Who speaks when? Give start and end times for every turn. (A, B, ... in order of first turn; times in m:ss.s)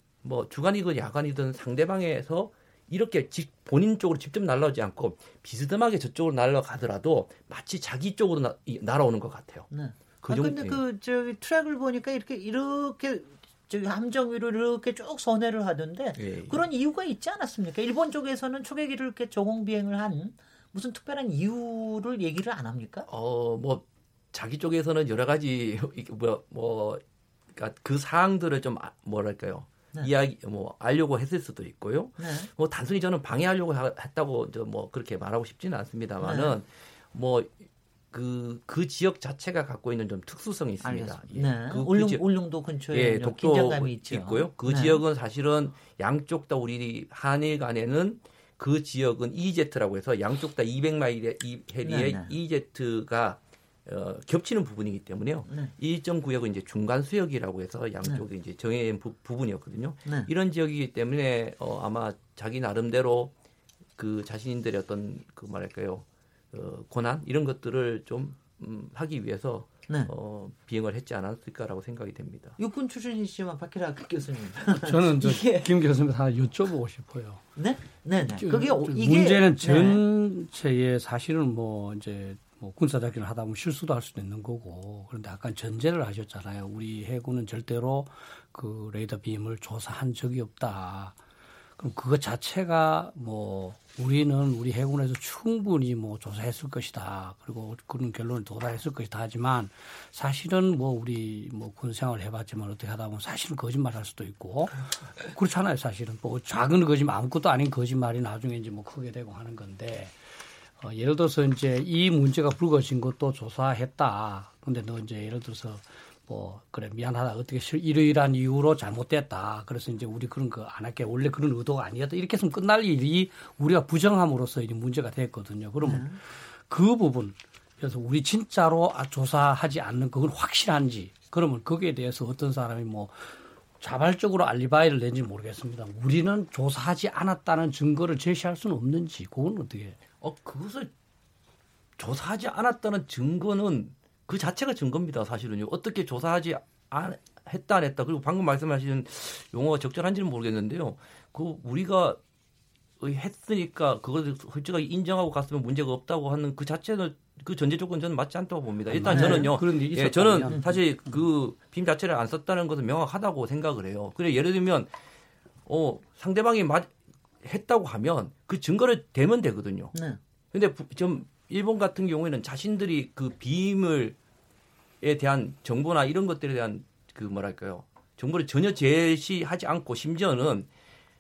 0:00.2-0:09.7 A
0:09.7-0:23.1 B
0:10.2-0:10.8 A
0:16.2-0:16.6 A
0:23.1-0:27.0 A
0:27.5-0:37.5 A
0:32.2-0:32.5 B
0:36.2-0:36.6 B
0:38.1-0:42.2 A
0:40.8-0:45.0 B
0:42.9-1:03.3 A
0:51.8-0:52.3 B
0:55.5-0:55.7 B
1:00.0-1:00.3 B
1:04.0-1:12.6 A
1:12.6-1:15.7 B
1:14.7-1:17.5 C
1:17.6-1:20.0 B
1:18.2-1:31.2 C
1:31.8-1:50.2 C
1:50.8-2:13.2 C
2:05.8-2:06.2 B
2:13.8-2:20.0 C
2:20.2-2:20.9 A
2:22.0-2:32.2 A
2:33.0-2:44.9 A
2:38.9-2:40.8 C
2:39.1-2:39.5 B
2:45.7-2:46.9 A
2:47.4-2:49.9 A
2:49.9-2:50.2 B
2:50.5-2:54.2 A
2:55.0-3:00.7 A